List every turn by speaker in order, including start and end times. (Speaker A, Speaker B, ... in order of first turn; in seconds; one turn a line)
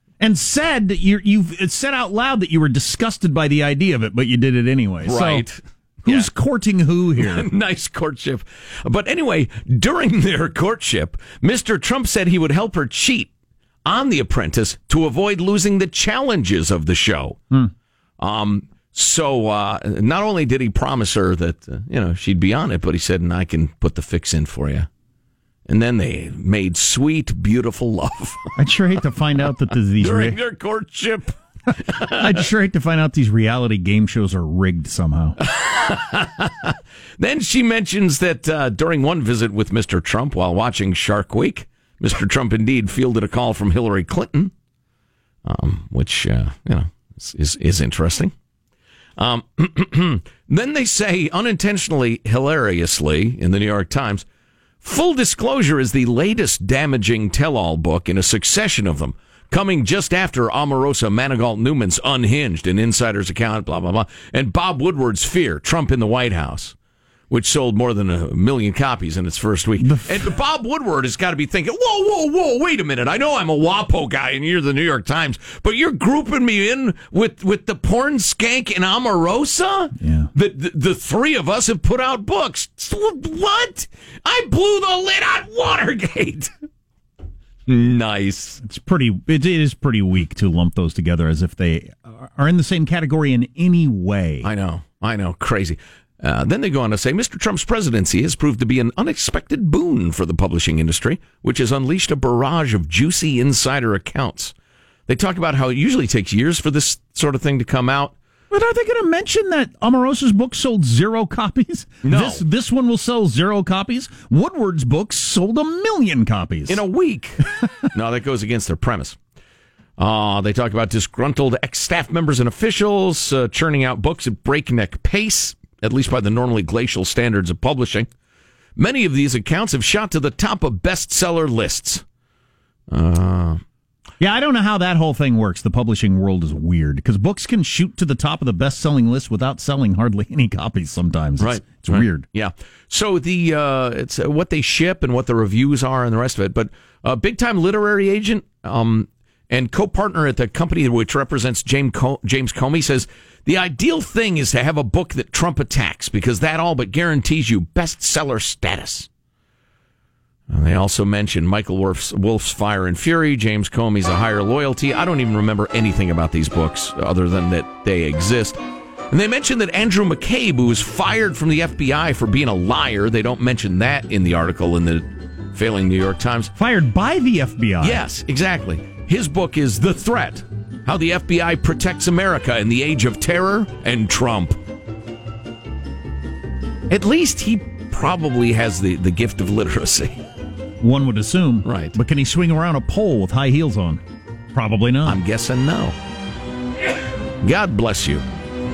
Speaker A: 0.2-5.4
Speaker B: 5.0-6.3
Speaker A: 6.0-7.5
Speaker B: 7.2-13.3
Speaker B: 13.8-17.4
Speaker B: 18.2-24.9
Speaker B: 25.7-28.6
Speaker A: 28.6-30.4
Speaker B: 30.0-32.4
Speaker A: 31.7-35.4
Speaker B: 35.4-44.5
Speaker B: 45.4-48.3
Speaker B: 49.2-54.2
Speaker B: 54.8-66.7
Speaker B: 67.3-86.5
Speaker A: 69.8-70.3
Speaker A: 80.0-80.3
Speaker B: 87.7-88.6
Speaker A: 88.6-94.5
Speaker B: 94.4-104.5
Speaker B: 105.1-108.1
Speaker A: 108.5-116.8
Speaker B: 112.0-112.4
Speaker B: 116.7-119.2
Speaker B: 120.0-128.1
Speaker B: 128.8-132.0
Speaker B: 132.9-133.6
Speaker A: 134.2-142.2
Speaker B: 141.4-159.1
Speaker B: 160.5-176.5
Speaker A: 176.6-178.0
Speaker B: 177.8-184.6
Speaker B: 186.9-190.2
Speaker A: 190.8-194.0
Speaker B: 191.6-192.0
Speaker A: 194.5-195.2
Speaker B: 195.0-195.9
Speaker B: 197.4-198.2